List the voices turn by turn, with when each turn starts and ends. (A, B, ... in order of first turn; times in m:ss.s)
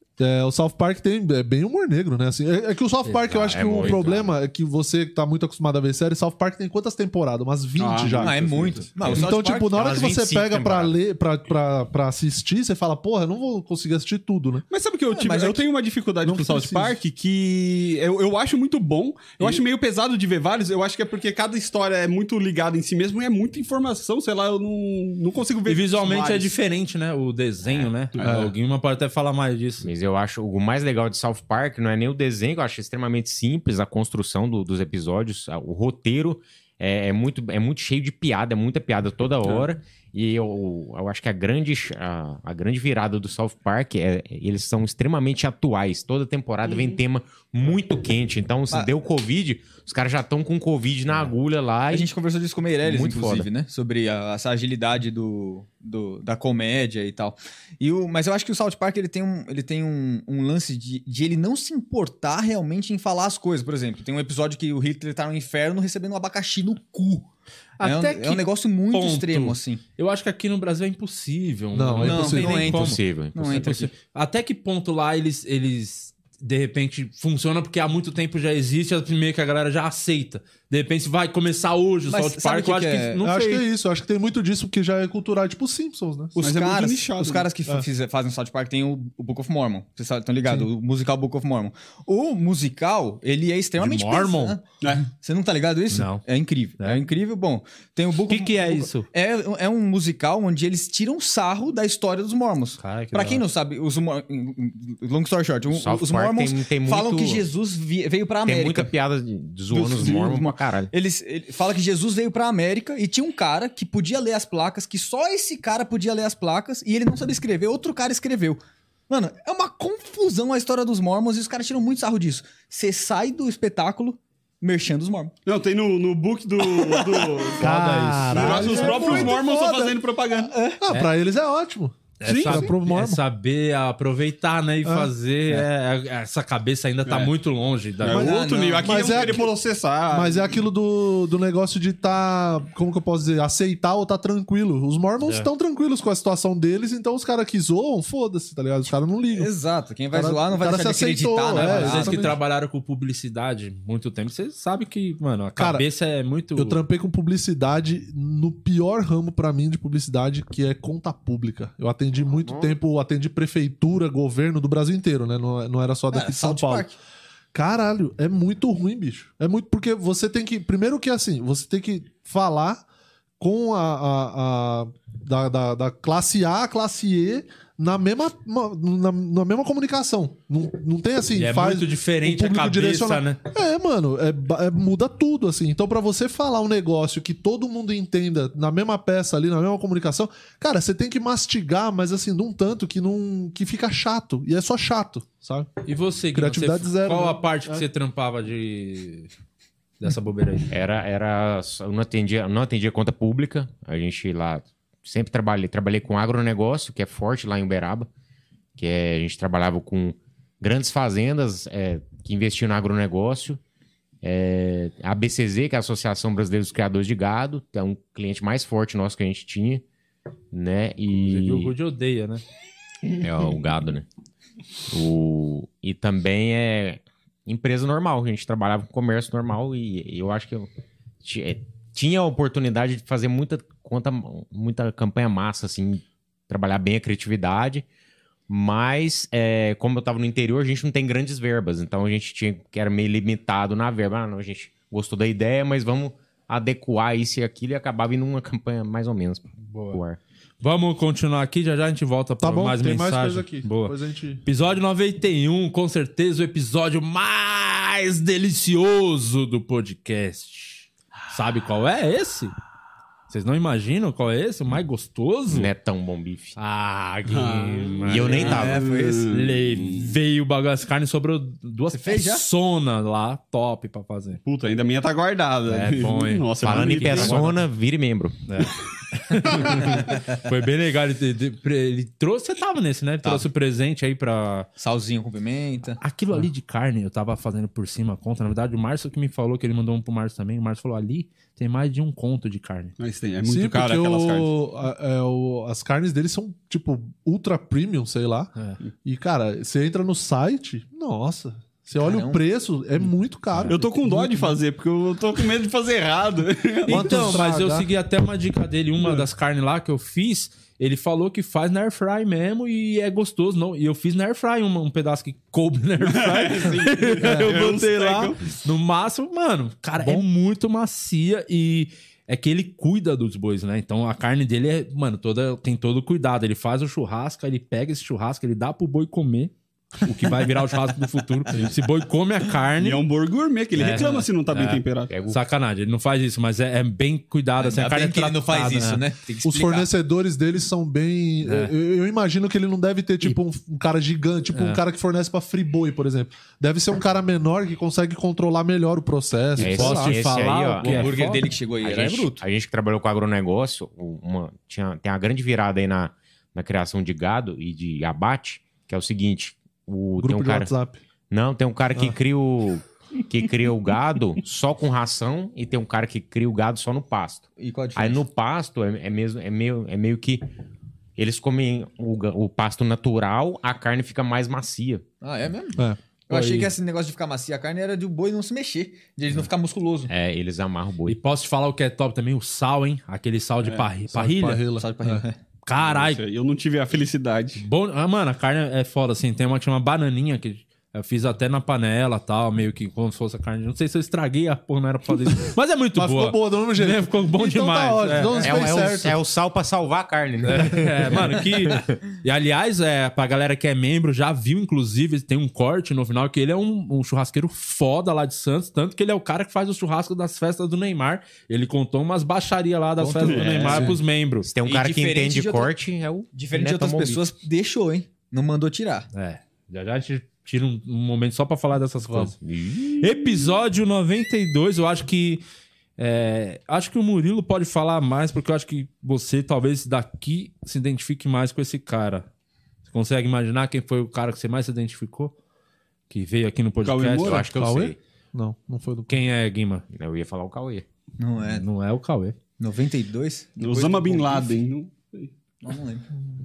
0:00.2-0:14.6 A
0:03.1-0:04.0 B
0:03.3-0:04.3 C
0:07.8-0:08.9 D
0:08.1-0:09.9 E
0:09.7-0:11.0 C
0:14.7-0:26.5 D
0:15.1-0:15.7 E
0:16.2-0:16.9 A
0:25.7-0:29.9 B
0:27.6-0:27.9 C
0:28.2-0:28.4 D
0:28.2-0:28.5 A
0:29.8-0:52.1 C
0:51.9-1:07.3 E
0:52.8-0:53.5 C
1:07.8-1:08.4 A
1:07.8-1:09.8 E
1:08.9-1:23.6 B
1:11.7-1:12.8 A
1:12.0-1:13.9 E
1:12.4-1:13.8 C
1:22.1-1:23.2 E
1:23.2-1:26.4 A
1:26.4-1:48.9 E
1:26.4-1:27.5 D
1:33.8-1:34.6 B
1:34.8-1:35.1 D
1:35.9-1:36.2 B
1:36.8-1:37.0 B
1:38.3-1:39.1 B
1:42.8-1:43.4 B
1:45.7-1:47.4 C
1:48.5-1:50.9 C
1:49.7-2:05.3 E
2:05.5-2:07.6 D
2:07.6-2:10.0 A
2:07.6-2:09.3 B
2:08.3-2:10.6 D
2:10.8-2:13.2 A
2:12.2-2:18.3 B
2:12.3-2:12.7 D
2:14.8-2:15.1 A
2:17.1-2:17.3 D
2:18.0-2:20.5 D
2:18.1-2:19.5 A
2:18.2-2:19.4 E
2:20.1-2:29.5 A
2:29.3-2:32.4 E
2:30.1-2:32.4 A
2:31.5-2:36.8 B
2:35.6-2:35.8 A
2:36.6-2:46.9 A
2:46.1-2:47.0 E
2:47.5-2:52.8 A
2:53.4-3:15.7 A
3:01.4-3:03.4 B
3:15.9-3:19.3 B
3:16.4-3:17.8 A
3:20.0-3:20.7 B
3:20.7-3:28.1 C
3:28.8-3:33.6 C
3:34.2-3:39.8 C
3:40.5-3:41.7 C
3:41.1-3:42.4 B
3:43.1-3:44.1 C
3:44.9-3:50.7 C
3:51.2-3:57.8 C
3:58.5-4:10.2 C
4:09.6-4:10.0 B
4:10.6-4:22.5 B
4:12.4-4:14.4 A
4:23.3-4:25.7 B
4:25.5-4:26.6 C
4:26.6-4:28.8 B
4:27.3-4:30.1 D
4:28.0-4:28.8 C
4:28.4-4:29.3 E
4:29.3-4:34.4 B
4:31.9-4:32.4 E
4:34.4-4:37.5 D
4:35.7-4:36.1 C
4:35.8-4:37.6 B
4:36.6-4:38.4 C
4:38.5-4:44.7 B
4:39.6-4:40.0 D
4:44.8-4:46.0 E
4:46.0-4:52.9 B
4:53.0-4:54.5 D
4:53.4-4:58.5 A
4:59.0-5:04.6 A
5:02.0-5:02.4 E
5:03.5-5:03.8 B
5:03.7-5:07.4 D
5:06.9-5:07.9 A
5:06.9-5:33.0 B
5:16.0-5:18.4 D
5:20.0-5:20.2 A
5:32.8-5:35.1 D
5:33.8-5:39.0 B
5:35.1-5:35.4 C
5:37.6-5:39.9 E
5:39.4-5:50.2 A
5:41.4-5:41.7 B
5:44.5-5:44.8 B
5:49.6-5:51.2 C
5:49.6-5:51.5 B
5:50.8-5:52.4 E
5:51.8-6:00.7 C
6:00.2-6:01.0 A
6:01.3-6:10.5 C
6:07.6-6:08.2 E
6:11.2-6:15.0 C
6:15.2-6:20.1 E
6:16.3-6:16.7 B
6:20.1-6:21.2 C
6:21.1-6:24.7 B
6:24.1-6:25.2 A
6:24.8-6:25.4 E
6:25.6-6:26.2 B
6:25.8-6:27.6 D
6:27.6-6:38.6 B
6:36.0-6:39.2 A
6:38.4-6:41.9 C
6:40.4-6:54.5 B
6:53.0-6:53.9 E
6:53.2-6:53.9 D
6:54.4-6:57.2 C
6:54.6-6:55.7 E
6:56.3-6:59.1 E
6:59.1-7:02.4 B
7:02.0-7:02.3 A
7:02.4-7:03.2 C
7:03.0-7:05.4 B
7:06.0-7:12.3 B
7:12.9-7:15.3 B
7:16.1-7:17.4 B
7:16.8-7:17.4 D
7:17.2-7:18.0 C
7:17.4-7:19.2 A
7:19.1-7:19.8 B
7:19.9-7:20.8 C
7:21.2-7:21.6 E
7:21.4-7:22.4 B
7:22.6-7:24.5 E
7:23.6-7:25.3 D
7:25.6-7:26.1 E